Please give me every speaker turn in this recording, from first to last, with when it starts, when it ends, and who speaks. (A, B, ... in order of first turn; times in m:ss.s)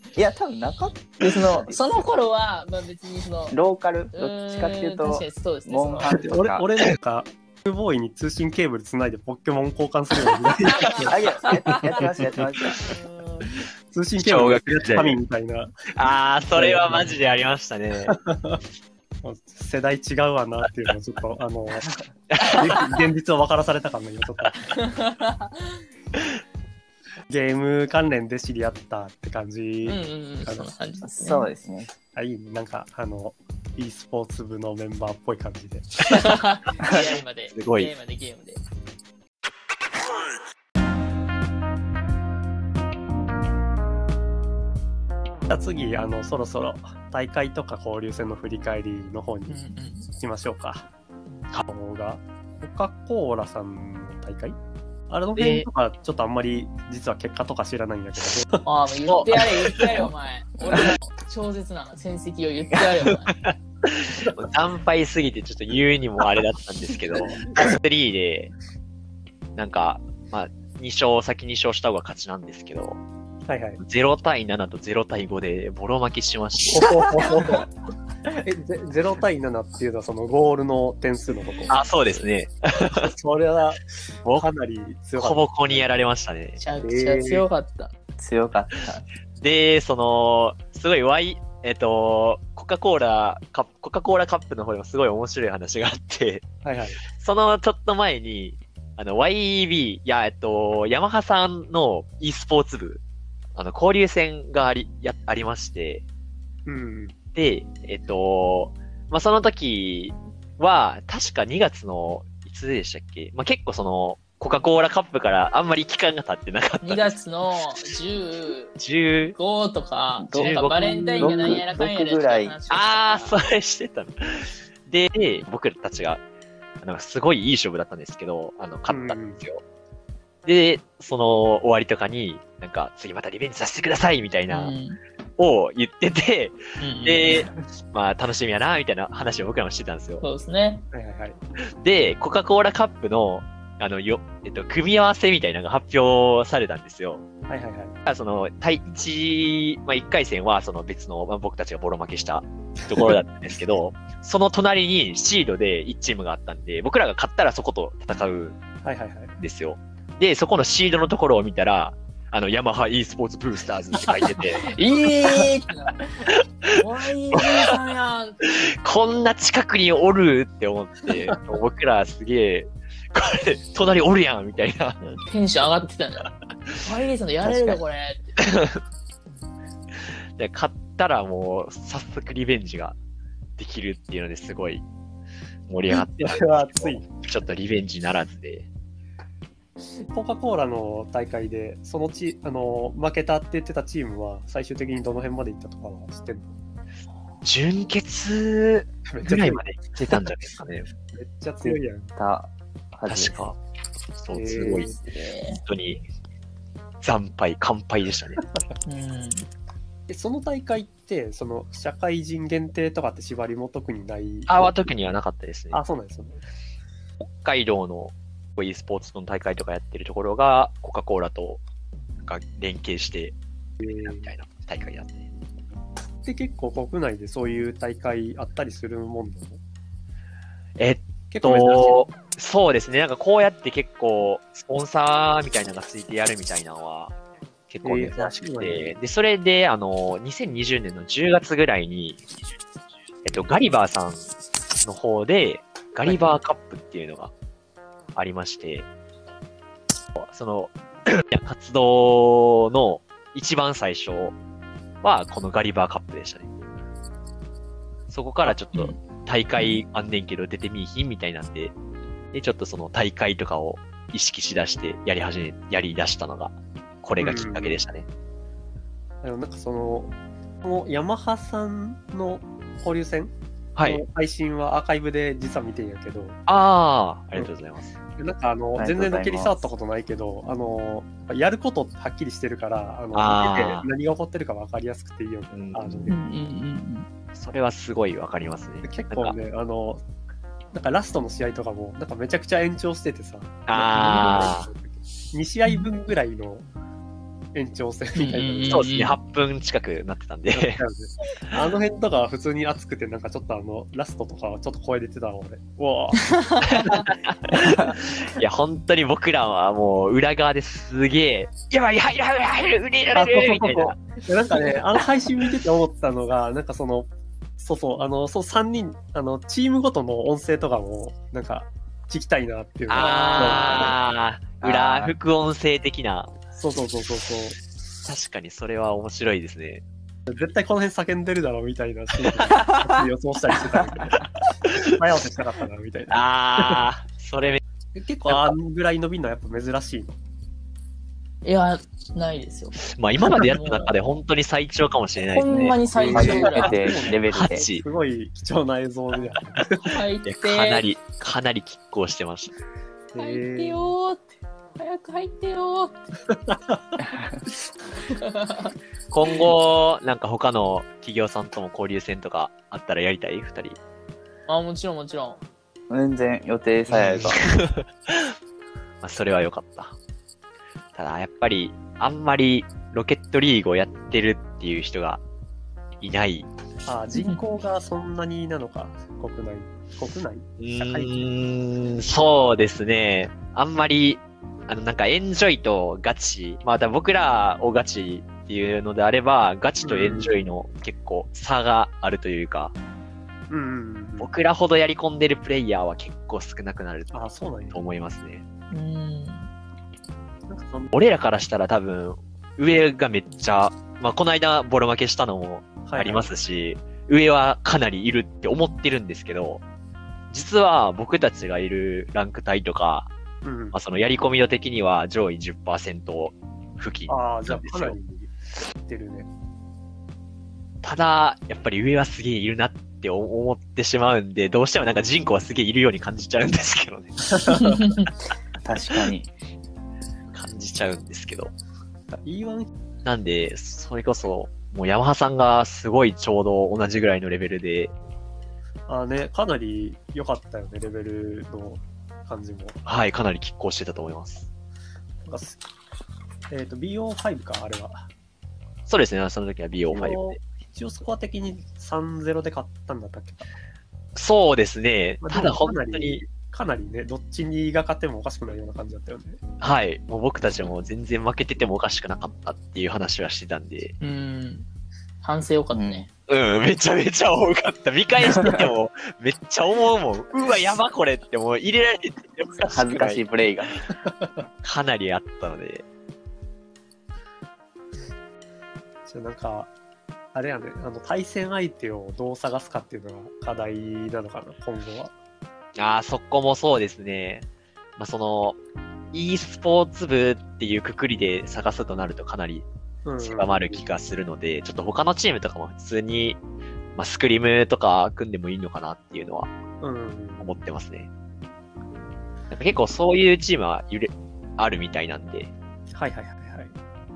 0:00.2-0:01.8 A
0:01.3-0:03.6 B
0:03.5-0:06.7 A
0:04.1-0:06.2 B
0:06.2-0:12.5 C
0:10.8-0:12.1 B
0:11.0-0:12.9 A
0:12.6-0:13.5 B
0:13.9-0:15.7 C
0:14.2-0:15.2 D
0:15.9-0:18.2 D
0:16.6-0:17.2 C
0:18.1-0:18.6 C
0:19.2-0:24.8 C
0:22.3-0:23.0 D
0:24.7-0:25.8 B
0:27.3-0:30.7 C
0:29.9-0:31.5 B
0:31.0-0:31.9 A
0:32.2-0:36.1 C
0:36.1-0:38.6 B
0:37.5-0:37.9 D
0:45.5-0:49.6 C
0:49.5-0:50.1 B
0:50.2-0:50.9 C
0:51.7-0:54.6 C
0:55.1-0:58.6 C
0:55.4-0:55.7 D
0:58.6-1:03.4 B
0:59.1-0:59.4 D
1:03.3-1:08.5 D
1:09.6-1:13.0 D
1:13.5-1:13.8 C
1:13.8-1:17.6 D
1:16.7-1:17.7 C
1:18.3-1:21.8 C
1:21.7-1:23.1 D
1:22.9-1:25.9 C
1:25.2-1:26.6 D
1:26.6-1:27.9 B
1:26.8-1:27.5 C
1:28.2-1:29.1 A
1:29.4-1:36.5 D
1:36.6-1:37.0 C
1:37.1-1:43.0 D
1:43.6-1:46.0 D
1:46.7-1:47.2 C
1:47.4-1:57.2 D
1:56.8-1:58.7 B
1:58.8-1:59.4 D
1:59.4-2:03.4 B
2:00.2-2:02.6 A
2:00.3-2:01.6 D
2:02.7-2:06.2 D
2:06.8-2:09.6 D
2:08.9-2:09.4 C
2:10.4-2:14.7 D
2:14.5-2:15.0 B
2:15.4-2:20.2 D
2:16.8-2:17.5 B
2:20.2-2:20.8 B
2:20.9-2:21.4 C
2:21.8-2:27.2 D
2:27.5-2:28.0 C
2:28.1-2:38.6 D
2:38.8-2:39.4 C
2:39.4-2:44.7 D
2:44.6-2:46.1 B
2:46.3-2:46.7 D
2:46.7-2:48.4 B
2:47.3-2:47.8 D
2:48.5-2:55.0 D
2:55.0-2:56.3 B
2:56.8-2:58.4 B
2:57.5-2:57.7 A
2:58.4-2:58.8 D
3:00.4-3:03.0 D
3:03.6-3:04.8 D
3:05.7-3:08.7 D
3:05.9-3:07.0 C
3:10.1-3:16.6 C
3:17.4-3:20.9 D
3:19.1-3:19.6 C
3:21.1-3:22.1 C
3:21.6-3:23.4 A
3:23.1-3:23.6 D
3:24.2-3:24.9 D
3:24.3-3:25.0 C
3:25.0-3:25.6 B
3:25.6-3:26.0 D
3:27.0-3:28.4 D
3:28.9-3:29.5 B
3:30.1-3:34.7 C
3:34.5-3:35.8 D
3:35.7-3:36.4 C
3:37.2-3:41.6 D
3:42.2-3:43.4 D
3:43.8-3:44.3 C
3:43.9-3:45.3 D
3:46.2-3:49.6 C
3:50.8-3:57.1 D
3:51.3-3:52.0 C
3:57.7-4:02.2 D
3:57.8-3:58.9 C
4:03.2-4:04.2 D
4:04.8-4:07.3 D
4:06.0-4:06.4 C
4:08.2-4:08.9 D
4:10.2-4:14.4 D
4:15.0-4:16.5 D
4:18.1-4:21.7 D
4:22.3-4:28.1 D
4:27.2-4:27.8 C
4:29.2-4:36.4 C
4:33.8-4:34.0 D
4:36.5-4:38.0 D
4:38.2-4:46.2 C
4:38.8-4:39.6 A
4:43.1-4:43.9 D
4:45.5-4:46.1 D
4:46.1-4:47.1 B
4:47.4-4:49.4 D
4:48.8-4:50.0 C
4:50.7-4:56.7 C
4:53.7-4:54.7 D
4:57.5-4:58.9 C
4:58.2-4:59.2 B
4:58.7-5:00.8 D
5:00.5-5:07.0 C
5:06.3-5:07.0 B
5:06.8-5:14.0 D
5:07.7-5:07.9 C
5:13.2-5:24.0 C
5:22.9-5:26.3 D
5:23.0-5:24.0 B
5:24.7-5:25.1 A
5:26.6-5:27.6 C
5:28.0-5:29.8 D
5:30.3-5:36.8 C
5:36.1-5:37.6 D
5:38.0-5:40.2 C
5:38.3-5:38.6 D
5:41.4-5:43.9 B
5:42.8-5:45.8 D
5:45.3-5:46.8 B
5:45.9-5:50.0 C
5:46.1-5:47.6 A
5:46.9-5:47.8 D
5:49.8-5:50.8 B
5:50.2-5:52.5 D
5:53.1-5:53.9 C
5:53.2-5:56.0 B
5:56.3-5:57.0 C
5:58.1-5:58.7 B
5:59.1-6:03.8 D
6:04.5-6:05.4 B
6:05.9-6:07.4 A
6:06.9-6:08.4 D
6:09.0-6:10.0 D
6:11.0-6:15.2 D
6:16.0-6:16.5 D
6:16.9-6:21.3 C
6:17.1-6:17.4 B
6:20.6-6:32.8 D
6:29.8-6:30.3 C
6:33.5-6:34.3 C
6:34.2-6:37.2 D
6:37.1-6:37.8 C
6:37.7-6:38.4 D
6:38.7-6:39.5 B
6:40.5-6:40.9 C
6:40.9-6:49.6 D
6:45.9-6:46.3 C
6:50.3-6:53.1 D
6:53.4-6:53.8 C
6:53.7-6:58.0 D
6:57.1-6:59.3 C
7:00.8-7:07.9 D
7:07.5-7:08.1 B
7:08.6-7:09.3 A
7:10.3-7:11.5 D
7:12.1-7:12.7 C
7:13.0-7:17.9 D
7:18.9-7:22.8 C
7:22.9-7:24.5 D
7:25.3-7:25.6 C
7:26.5-7:28.1 C
7:28.9-7:30.4 D
7:29.9-7:33.5 C
7:34.2-7:36.2 D
7:35.2-7:39.4 C
7:39.6-7:44.0 D
7:44.0-7:44.7 B
7:45.2-7:46.1 B
7:45.7-7:46.1 A
7:46.3-7:53.2 D
7:52.6-7:53.8 A
7:54.6-7:55.8 D
7:59.1-7:59.7 C
8:00.3-8:05.1 C
8:05.8-8:07.5 D
8:08.0-8:08.6 D
8:09.1-8:12.7 D
8:13.0-8:13.8 C
8:13.2-8:16.4 D
8:17.0-8:19.5 D
8:19.8-8:20.5 C
8:20.4-8:21.1 D
8:22.5-8:25.5 D
8:25.9-8:26.8 C